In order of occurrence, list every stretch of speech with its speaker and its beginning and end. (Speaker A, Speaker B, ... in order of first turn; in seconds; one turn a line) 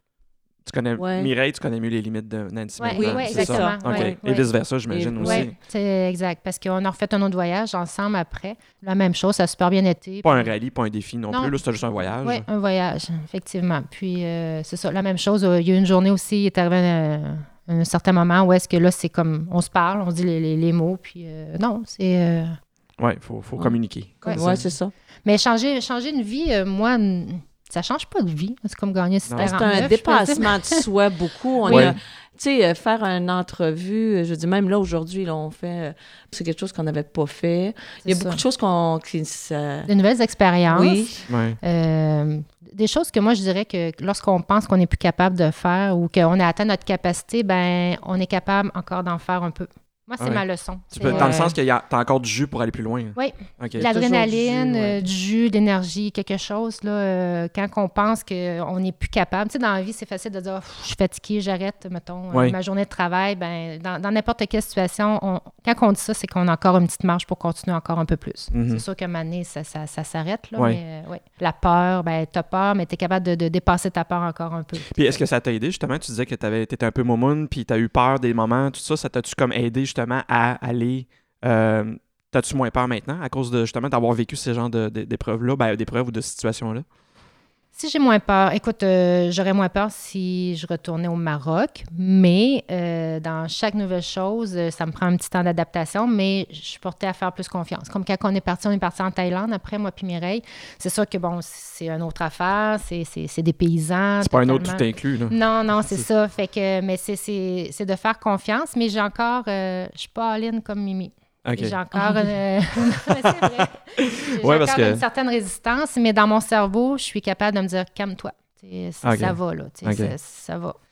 Speaker A: 0.6-5.5
Speaker B: 1.0-1.3
Speaker C: 2.8-4.5
Speaker B: 2.9-4.2
Speaker B: 4.9-5.5
Speaker C: 5.2-10.5
Speaker A: 10.2-12.4
Speaker C: 11.3-11.5
Speaker C: 12.2-22.6
Speaker A: 23.0-24.7
Speaker C: 24.2-24.5
Speaker B: 24.3-24.9
Speaker C: 25.2-30.8
Speaker A: 29.3-29.6
Speaker B: 29.4-39.9
Speaker C: 31.6-31.9
Speaker A: 31.7-31.9
Speaker C: 38.0-38.4
Speaker C: 39.9-51.5
Speaker B: 40.7-41.2
Speaker A: 41.3-41.6
Speaker A: 50.2-55.0
Speaker B: 51.0-51.4
Speaker C: 53.1-75.2
Speaker B: 53.8-54.4
Speaker A: 68.5-68.8
Speaker A: 74.9-86.8
Speaker C: 87.7-120.8
Speaker A: 104.2-105.4
Speaker A: 111.4-111.8
Speaker B: 111.9-112.3
Speaker A: 114.0-115.0
Speaker A: 119.0-120.1